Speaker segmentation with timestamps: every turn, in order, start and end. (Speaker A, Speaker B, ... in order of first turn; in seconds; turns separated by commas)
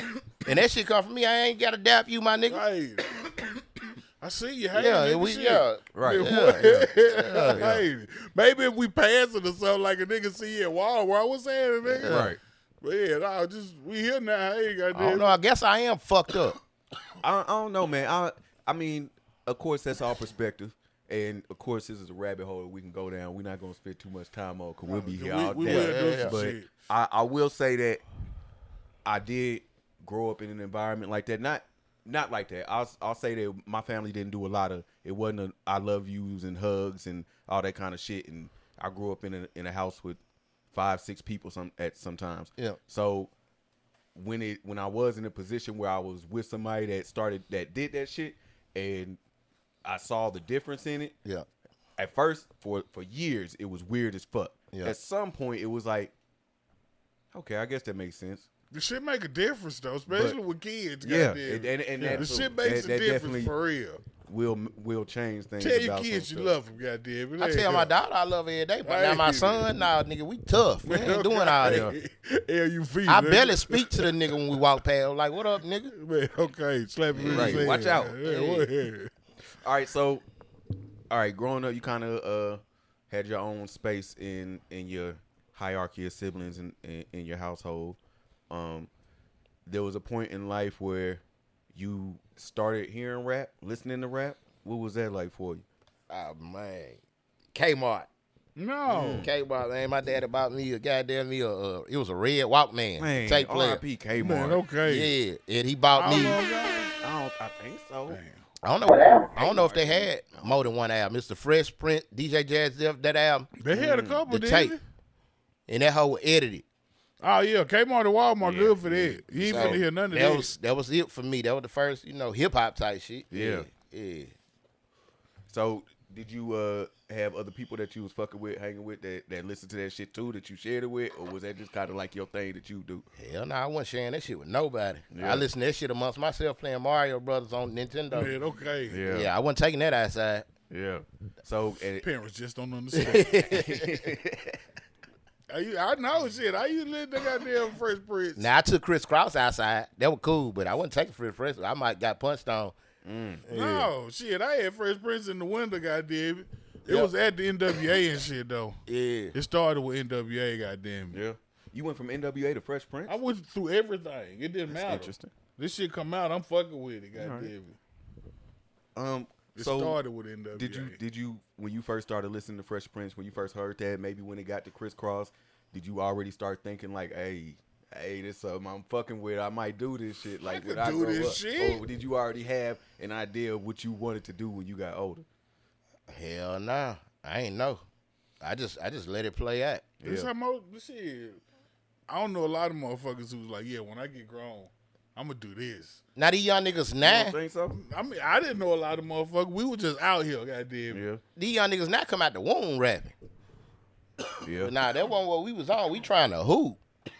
Speaker A: 0.4-2.6, Speaker B: 2.5-12.3, Speaker A: 4.7-7.6, Speaker C: 5.9-6.3, Speaker C: 7.5-7.9, Speaker A: 11.8-12.3, Speaker C: 12.0-12.4, Speaker B: 12.8-15.4, Speaker A: 14.9-16.6, Speaker C: 17.2-28.0, Speaker B: 24.9-26.7, Speaker A: 25.6-26.4, Speaker C: 29.1-40.2, Speaker C: 40.7-43.3, Speaker C: 44.1-49.2, Speaker C: 49.9-51.1, Speaker C: 52.0-56.1, Speaker C: 57.3-58.5, Speaker B: 58.7-64.0, Speaker C: 60.1-60.4, Speaker C: 61.0-63.5, Speaker C: 64.2-66.6, Speaker B: 65.6-68.0, Speaker A: 67.4-71.9, Speaker B: 68.8-69.8, Speaker B: 70.8-74.6, Speaker C: 71.6-72.0, Speaker A: 73.1-75.9, Speaker B: 75.9-79.1, Speaker A: 77.2-78.7, Speaker C: 77.3-78.2, Speaker C: 79.6-80.2, Speaker C: 81.1-88.0, Speaker C: 88.5-88.9, Speaker C: 89.7-91.2, Speaker C: 91.7-95.7, Speaker A: 96.1-97.0, Speaker A: 97.5-98.1, Speaker B: 98.6-99.3, Speaker C: 98.9-99.3, Speaker A: 99.2-103.8, Speaker C: 103.0-104.6, Speaker B: 104.2-105.1, Speaker A: 104.8-106.4, Speaker B: 106.0-107.0, Speaker C: 107.0-108.2, Speaker B: 108.1-108.4, Speaker A: 108.6-113.5, Speaker C: 109.4-110.7, Speaker B: 113.6-114.8, Speaker C: 113.7-114.2, Speaker A: 114.3-114.8, Speaker A: 115.7-116.7, Speaker B: 117.2-120.5, Speaker C: 118.4-119.8, Speaker A: 119.4-124.4, Speaker C: 123.3-123.7, Speaker C: 125.5-133.1, Speaker A: 133.2-138.4, Speaker C: 135.1-135.5, Speaker B: 138.1-139.0, Speaker C: 138.9-139.3, Speaker A: 139.0-140.5, Speaker C: 140.7-142.1, Speaker B: 142.0-143.6, Speaker A: 142.9-144.1, Speaker C: 143.5-144.6, Speaker B: 145.5-148.5, Speaker A: 148.4-152.8, Speaker C: 153.1-153.5, Speaker A: 153.5-153.9, Speaker B: 153.5-158.8, Speaker A: 158.9-159.4, Speaker B: 159.3-161.2, Speaker C: 161.1-163.2, Speaker B: 163.1-167.8, Speaker C: 164.7-165.3, Speaker C: 167.2-167.5, Speaker C: 168.9-170.0, Speaker B: 169.5-171.0, Speaker C: 170.6-185.3, Speaker B: 180.4-181.8, Speaker A: 186.1-187.8, Speaker A: 188.4-189.9, Speaker C: 190.0-190.3, Speaker B: 190.0-191.4, Speaker B: 192.1-196.0, Speaker A: 196.2-197.4, Speaker C: 197.0-197.8, Speaker B: 197.7-201.0, Speaker C: 200.9-201.2, Speaker A: 201.4-203.1, Speaker C: 204.4-204.8, Speaker A: 204.6-206.8